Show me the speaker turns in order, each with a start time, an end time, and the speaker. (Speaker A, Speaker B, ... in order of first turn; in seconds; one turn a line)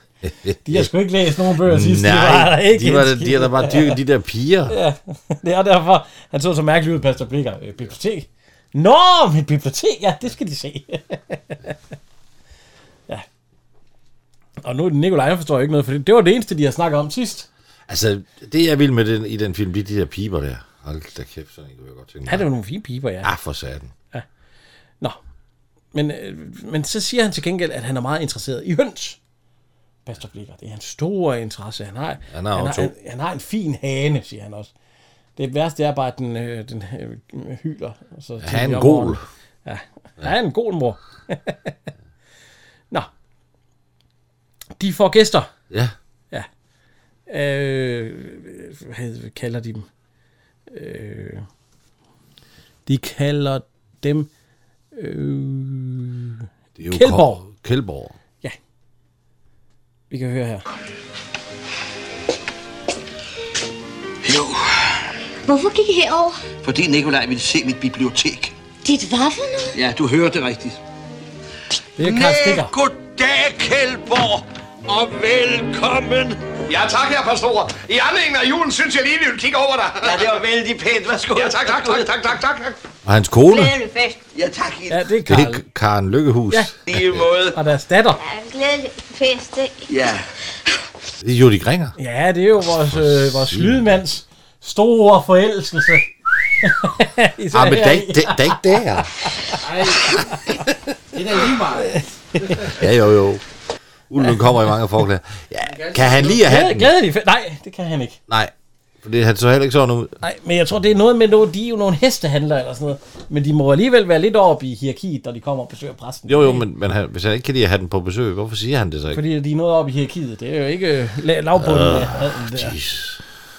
Speaker A: 0.2-0.9
Speaker B: 0.6-4.0
Speaker A: 1.6-4.8
Speaker B: 4.7-11.7
Speaker B: 14.6-17.5
Speaker A: 17.9-22.5
Speaker B: 22.2-23.3
Speaker A: 23.2-23.9
Speaker B: 25.9-29.2
Speaker B: 30.1-34.7
Speaker A: 32.3-32.9
Speaker B: 35.4-41.7
Speaker A: 38.4-39.2
Speaker B: 44.8-45.5
Speaker B: 47.3-49.9
Speaker B: 50.7-51.5
Speaker B: 52.9-54.3
Speaker B: 54.9-57.4
Speaker A: 56.8-58.1
Speaker B: 60.1-60.6
Speaker C: 64.2-65.1
Speaker C: 66.6-68.5
Speaker D: 69.2-69.7
Speaker C: 69.7-70.8
Speaker B: 72.0-72.7
Speaker C: 72.0-76.4
Speaker E: 76.7-80.3
Speaker C: 80.0-82.1
Speaker E: 81.3-82.8
Speaker A: 83.0-83.8
Speaker D: 83.5-84.2
Speaker C: 84.3-85.0
Speaker B: 84.9-85.6
Speaker A: 85.2-87.2
Speaker C: 86.9-87.6
Speaker B: 87.5-88.2
Speaker D: 88.2-89.9
Speaker C: 89.9-90.3
Speaker A: 91.2-92.0
Speaker B: 92.0-98.8
Speaker A: 92.6-94.0
Speaker A: 97.5-99.1
Speaker B: 99.3-100.5
Speaker F: 99.6-100.1
Speaker F: 101.1-102.0
Speaker B: 101.8-102.8
Speaker A: 102.6-103.4
Speaker A: 104.1-106.9
Speaker F: 105.6-106.5
Speaker B: 106.3-108.2
Speaker A: 108.3-110.2
Speaker B: 110.2-116.6
Speaker A: 116.3-119.2
Speaker B: 119.1-122.7
Speaker A: 121.6-123.4